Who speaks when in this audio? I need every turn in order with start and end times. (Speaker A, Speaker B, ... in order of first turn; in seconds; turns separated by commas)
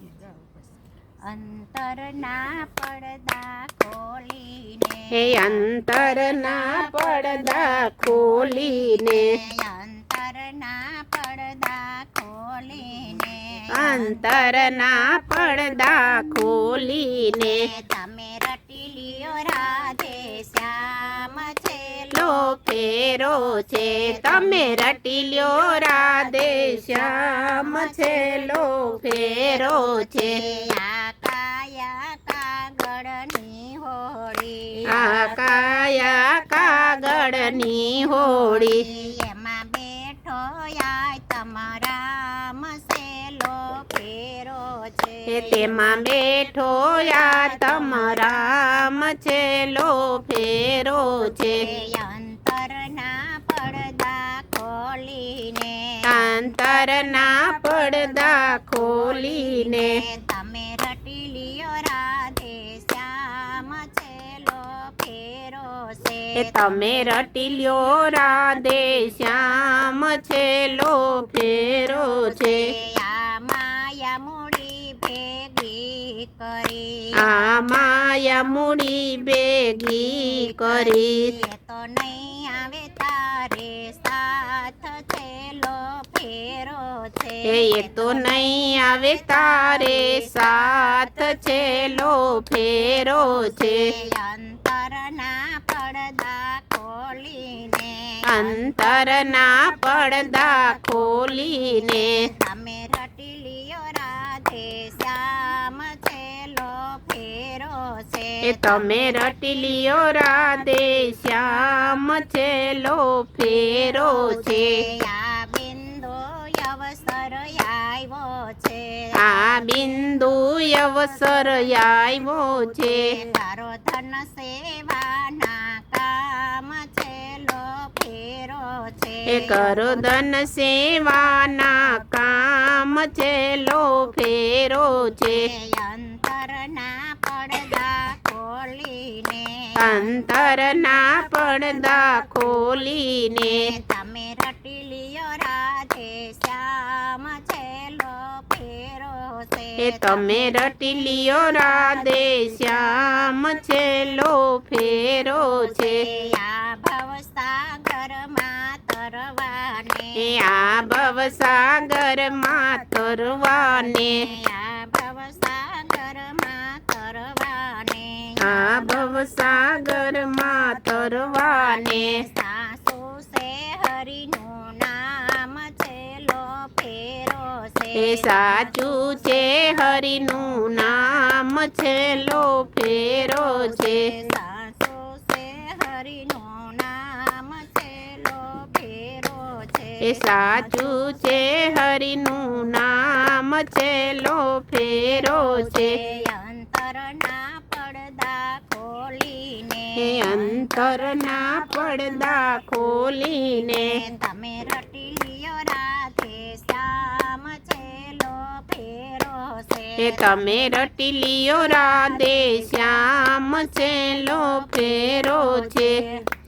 Speaker A: 1.2-14.2, Speaker B: 5.1-9.4, Speaker B: 13.7-17.7, Speaker A: 17.4-22.3, Speaker B: 22.1-30.5, Speaker A: 24.1-24.6, Speaker A: 26.2-28.6, Speaker A: 29.6-35.4, Speaker B: 34.9-38.8, Speaker A: 38.2-45.9, Speaker B: 45.3-51.7, Speaker A: 46.9-48.4, Speaker A: 51.4-56.5, Speaker B: 56.0-60.0, Speaker A: 59.3-66.9, Speaker B: 66.3-72.7, Speaker A: 71.9-77.2, Speaker B: 77.2-81.3, Speaker A: 80.1-88.5, Speaker B: 87.5-93.9, Speaker A: 89.1-90.4, Speaker A: 93.1-98.9, Speaker B: 98.2-102.3, Speaker A: 101.8-109.1, Speaker B: 108.4-114.8, Speaker A: 114.1-119.7, Speaker B: 119.1-123.1, Speaker A: 122.8-130.1, Speaker B: 129.3-135.5, Speaker A: 135.3-140.3, Speaker B: 139.8-143.7, Speaker A: 143.4-150.4, Speaker B: 149.8-156.1, Speaker A: 155.4-160.3, Speaker B: 160.2-164.2, Speaker A: 163.4-169.0, Speaker B: 168.4-172.2, Speaker A: 171.0-179.7, Speaker B: 177.9-184.1, Speaker A: 183.1-191.7, Speaker B: 190.0-196.0, Speaker A: 195.2-202.3, Speaker B: 200.0-204.0, Speaker A: 203.7-210.7, Speaker B: 210.0-216.0, Speaker A: 211.6-213.1, Speaker A: 213.6-216.2